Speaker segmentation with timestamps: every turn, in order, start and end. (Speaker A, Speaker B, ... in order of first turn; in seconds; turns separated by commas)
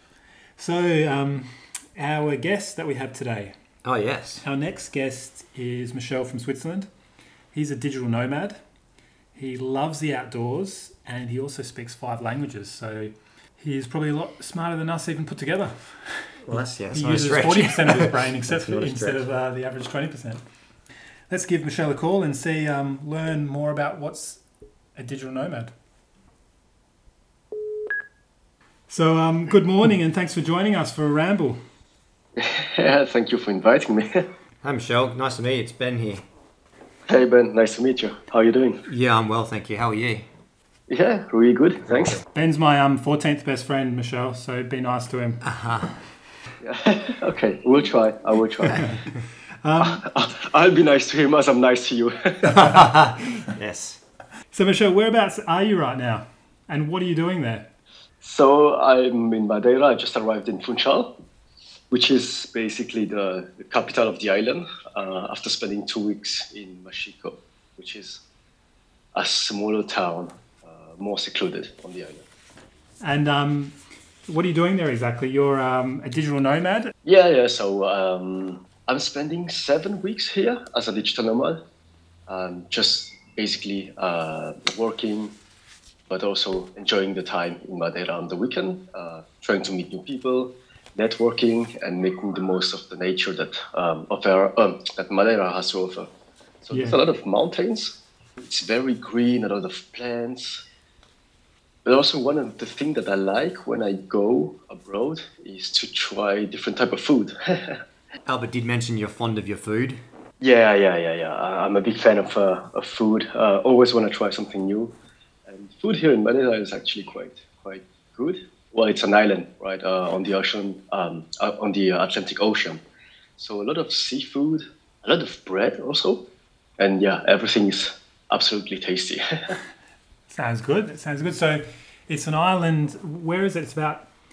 Speaker A: 0.6-3.6, Speaker B: 3.8-4.4, Speaker A: 4.4-6.9, Speaker A: 7.5-8.6, Speaker A: 9.3-20.4, Speaker B: 16.4-19.3, Speaker A: 21.3-24.4, Speaker A: 25.0-25.7, Speaker A: 28.9-31.6, Speaker C: 32.4-34.3, Speaker B: 34.6-36.2, Speaker C: 37.1-38.8, Speaker B: 38.9-40.3, Speaker C: 40.9-42.2, Speaker A: 42.3-45.5, Speaker B: 45.4-46.0, Speaker C: 46.6-49.0, Speaker A: 49.6-50.0, Speaker C: 49.8-52.7, Speaker B: 52.4-54.0, Speaker A: 54.5-57.7, Speaker C: 58.2-61.1, Speaker C: 61.9-68.2, Speaker C: 69.2-72.2, Speaker A: 73.0-73.8, Speaker A: 74.3-76.9, Speaker C: 77.0-81.6, Speaker C: 82.3-85.3, Speaker C: 86.1-96.1, Speaker C: 96.6-100.6, Speaker A: 96.7-97.0, Speaker C: 101.8-107.8, Speaker B: 108.3-110.0, Speaker C: 110.4-114.9, Speaker C: 115.5-122.8, Speaker C: 123.4-126.2, Speaker C: 126.8-129.6, Speaker A: 130.3-134.1